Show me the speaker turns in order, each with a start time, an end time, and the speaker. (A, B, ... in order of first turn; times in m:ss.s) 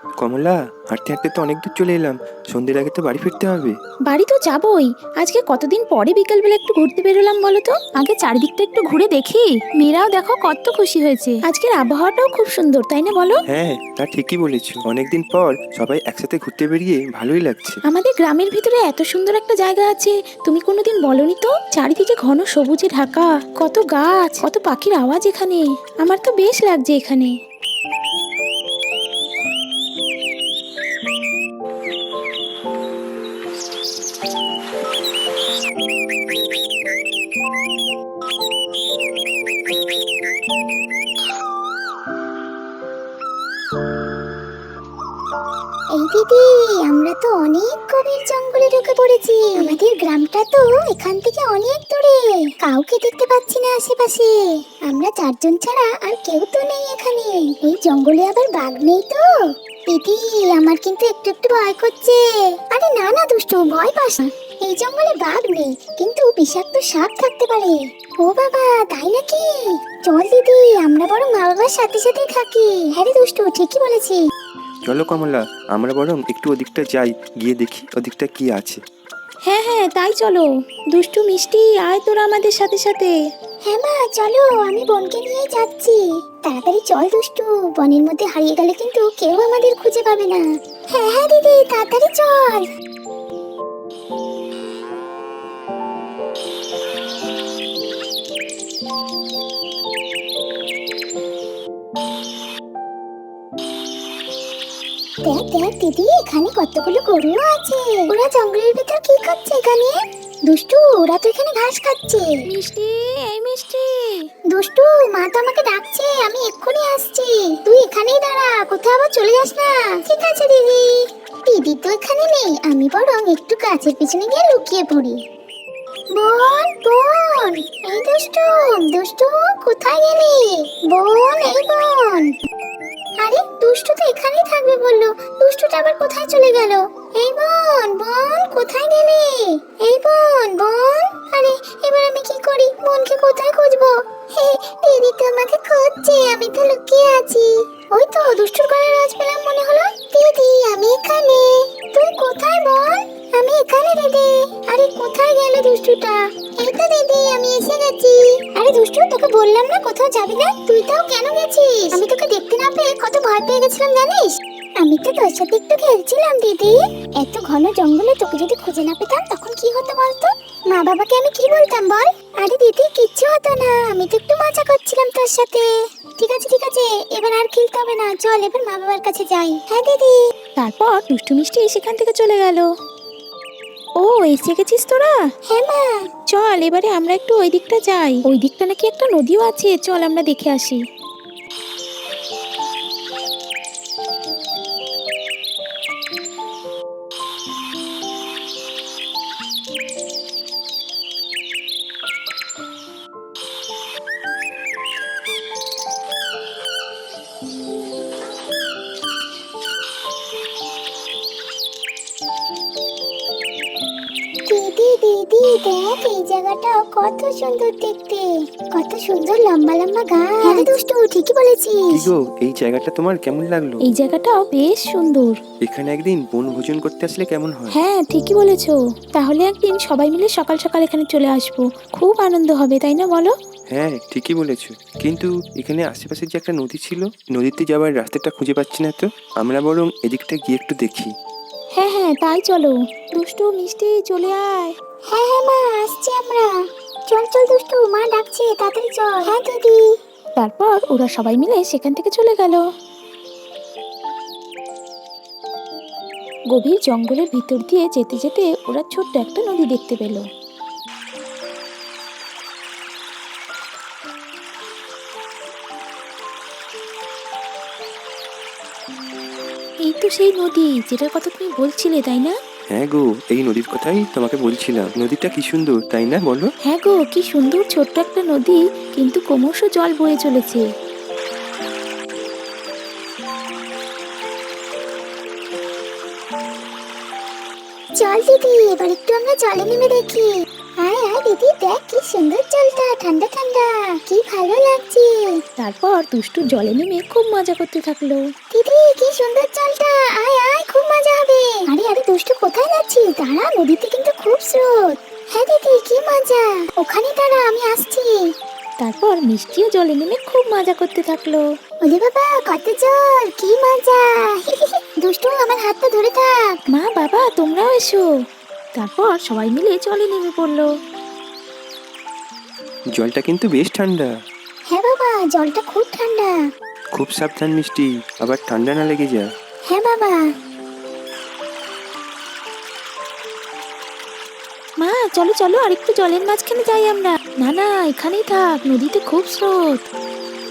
0:00.2-0:03.8 A
0:04.1-0:13.4 B
0:13.5-0:17.8 A
0:17.9-0:27.3 B
0:45.9-0:59.2 C
0:59.9-1:14.2 C
1:14.9-1:18.8 A
1:19.4-1:23.1 B
1:23.6-1:32.6 C
1:45.2-1:52.3 C
1:52.5-1:54.2 B
1:54.5-2:05.2 C
2:06.1-2:12.3 C
2:13.2-3:00.2 C
3:00.6-3:02.7 B
3:04.0-3:05.1 B
3:05.4-3:06.1 C
3:06.3-3:10.8 B
3:34.5-3:42.1 C
3:40.4-3:40.7 B
3:41.9-3:43.8 A
3:43.8-3:45.4 B
3:45.6-3:47.8 A
3:47.7-3:53.3 B
3:53.7-4:01.1 A
4:01.7-4:04.7 B
4:05.1-4:06.6 C
4:07.1-4:09.8 C
4:10.4-4:12.6 B
4:16.5-4:20.2 B
4:29.8-4:32.3 B
4:32.7-4:36.5 A
4:36.6-4:40.6 B
4:48.0-4:55.4 C
4:55.6-4:58.2 B
4:58.5-5:08.2 C
5:08.8-5:11.4 B
5:11.8-5:16.6 C
5:16.7-5:18.0 B
5:18.8-5:20.7 B
5:23.0-5:24.1 A
5:24.7-5:26.4 C
5:26.9-5:29.3 A
5:29.7-5:30.3 C
5:34.8-5:39.8 B